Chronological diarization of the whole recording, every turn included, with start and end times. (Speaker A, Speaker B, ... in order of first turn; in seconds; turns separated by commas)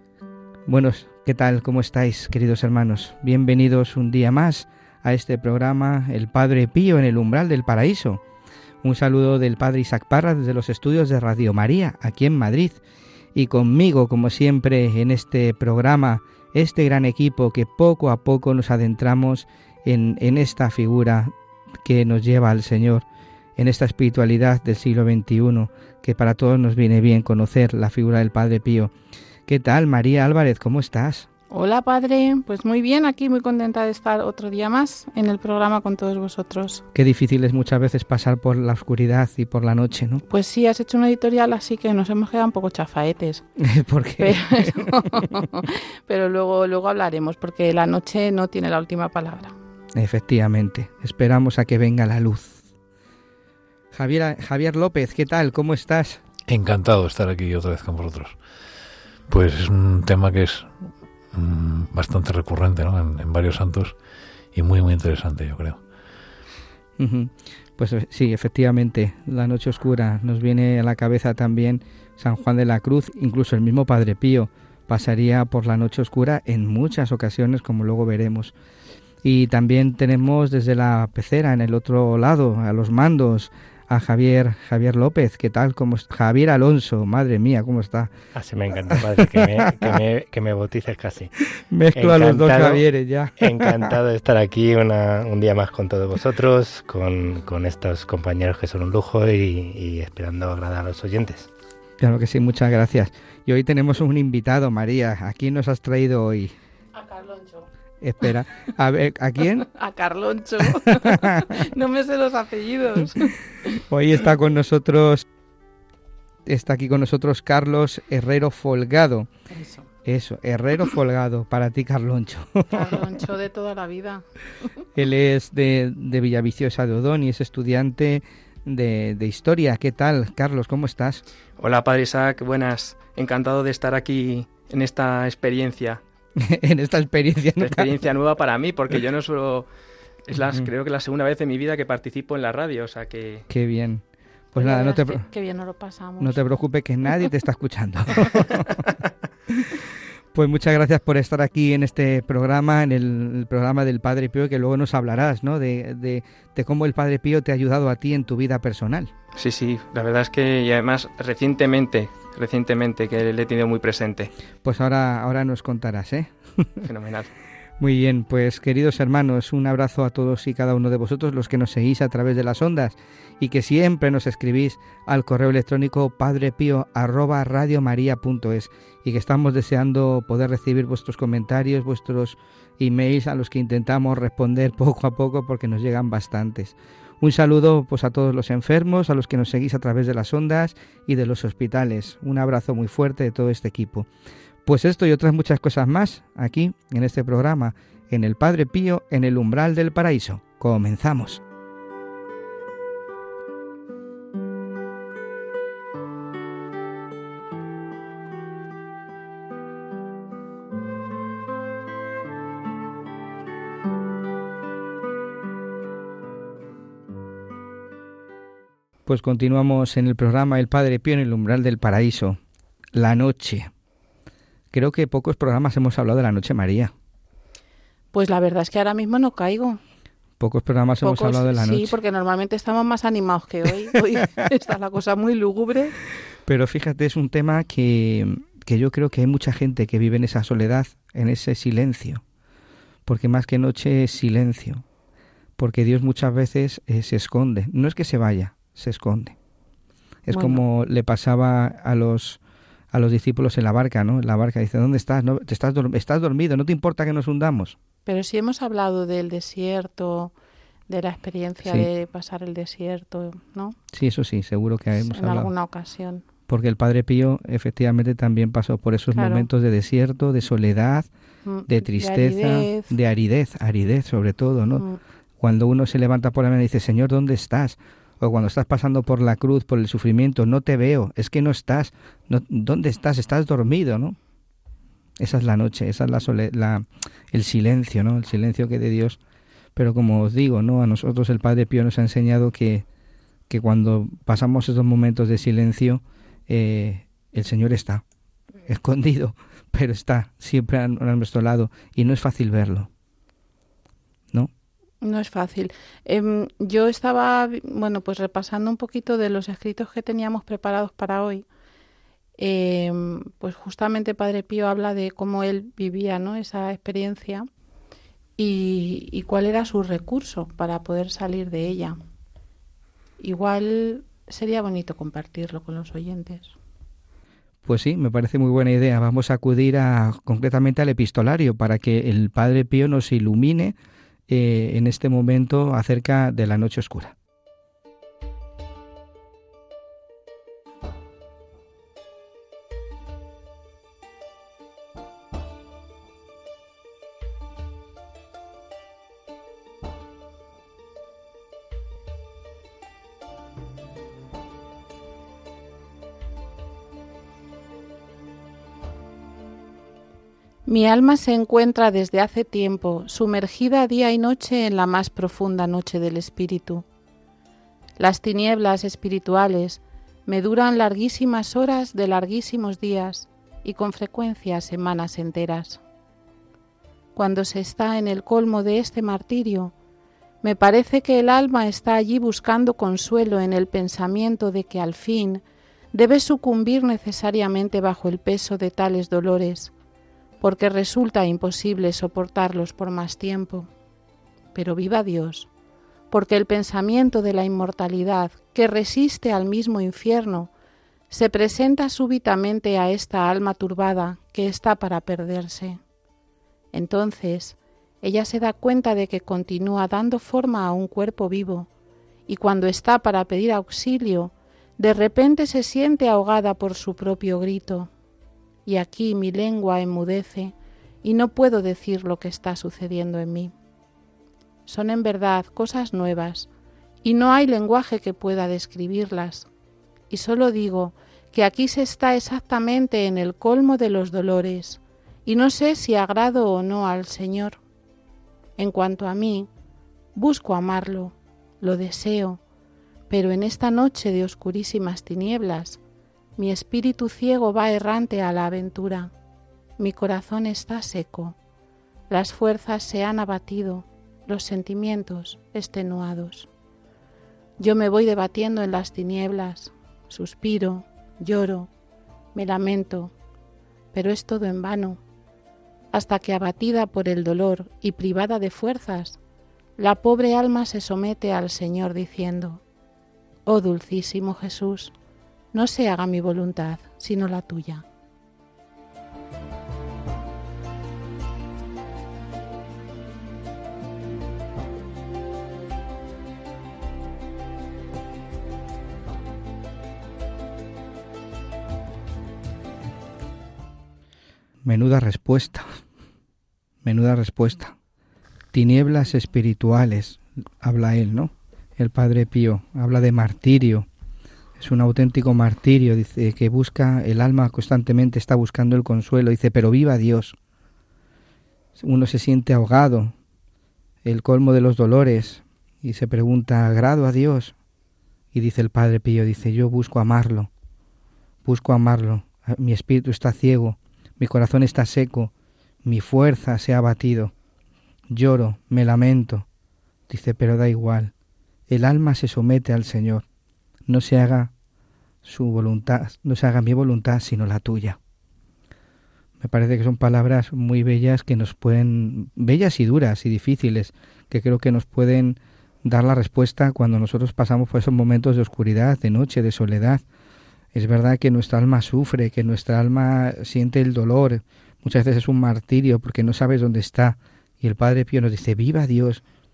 Speaker A: 0.7-8.2, Speaker A: 8.8-12.8, Speaker A: 13.3-23.1, Speaker A: 23.6-28.9, Speaker A: 29.5-31.3, Speaker B: 31.5-36.8, Speaker A: 36.9-40.2, Speaker B: 40.3-43.5, Speaker A: 43.6-45.0, Speaker B: 44.2-49.5, Speaker A: 49.9-52.6, Speaker A: 53.9-56.2, Speaker C: 56.5-58.4, Speaker C: 59.3-64.0, Speaker C: 64.5-65.8, Speaker A: 67.0-78.5, Speaker A: 79.2-88.1, Speaker D: 88.3-91.3, Speaker A: 89.0-90.0, Speaker A: 91.6-94.0, Speaker D: 92.0-92.8, Speaker D: 93.4-101.5, Speaker A: 102.0-106.5, Speaker B: 106.9-107.7, Speaker A: 108.0-109.7, Speaker B: 109.6-113.3, Speaker A: 110.8-111.6, Speaker A: 113.9-115.3, Speaker A: 116.5-119.3, Speaker B: 119.5-119.9, Speaker A: 120.0-123.2, Speaker B: 122.7-124.2, Speaker A: 125.0-131.2, Speaker E: 131.6-136.0, Speaker A: 136.4-137.9, Speaker E: 137.6-139.7, Speaker E: 140.3-143.4, Speaker A: 143.5-145.3, Speaker B: 144.6-146.4, Speaker A: 146.2-148.8, Speaker A: 150.3-159.1, Speaker E: 159.4-164.3, Speaker A: 164.6-166.9, Speaker E: 166.8-167.3, Speaker A: 167.8-194.1, Speaker A: 194.7-201.4, Speaker A: 219.1-222.4, Speaker A: 222.9-223.7, Speaker A: 224.7-226.9, Speaker B: 228.1-229.8, Speaker A: 230.4-231.9, Speaker B: 231.0-236.0, Speaker A: 236.5-242.2, Speaker A: 243.1-244.8, Speaker A: 245.6-249.4, Speaker A: 250.3-252.4, Speaker B: 250.3-250.6, Speaker A: 252.9-257.8, Speaker B: 258.1-260.3, Speaker B: 260.9-263.8, Speaker A: 263.9-265.5, Speaker B: 264.9-266.2, Speaker A: 266.5-271.1, Speaker B: 269.1-269.5, Speaker B: 271.4-272.9, Speaker A: 271.7-274.9, Speaker A: 275.4-284.2, Speaker A: 285.2-289.2, Speaker A: 289.8-292.9, Speaker A: 293.5-298.0, Speaker A: 298.6-302.9, Speaker B: 305.0-311.5, Speaker B: 312.4-317.5, Speaker B: 318.4-322.0, Speaker B: 323.2-326.6, Speaker A: 327.6-333.8, Speaker A: 334.3-337.1, Speaker B: 360.7-366.9, Speaker B: 368.0-375.8, Speaker B: 377.2-379.7, Speaker B: 380.4-385.4, Speaker B: 385.9-389.7, Speaker B: 390.4-393.7, Speaker B: 394.6-395.5, Speaker B: 396.1-400.5, Speaker B: 401.1-405.8, Speaker B: 406.7-411.7, Speaker B: 412.3-417.9, Speaker B: 418.7-423.5, Speaker B: 424.7-426.5, Speaker B: 427.0-429.5, Speaker B: 430.1-437.6, Speaker B: 438.6-439.5, Speaker B: 440.1-442.4, Speaker B: 443.1-445.8, Speaker B: 446.4-449.1, Speaker B: 449.8-451.4, Speaker B: 452.1-456.5, Speaker B: 457.6-461.7, Speaker B: 462.4-463.1, Speaker B: 463.9-465.0, Speaker B: 465.9-469.2, Speaker B: 469.8-472.6, Speaker B: 473.5-474.9, Speaker B: 475.5-477.8, Speaker A: 494.6-495.8, Speaker A: 496.8-497.8, Speaker A: 498.5-503.9, Speaker A: 504.6-510.4, Speaker A: 511.8-513.1, Speaker A: 514.0-517.5, Speaker A: 518.3-520.5, Speaker A: 521.5-525.3, Speaker A: 525.8-527.3, Speaker A: 528.1-529.5, Speaker A: 530.1-531.1, Speaker A: 531.7-533.2, Speaker A: 533.9-534.5, Speaker A: 535.2-538.0, Speaker A: 539.4-550.0, Speaker A: 550.7-559.2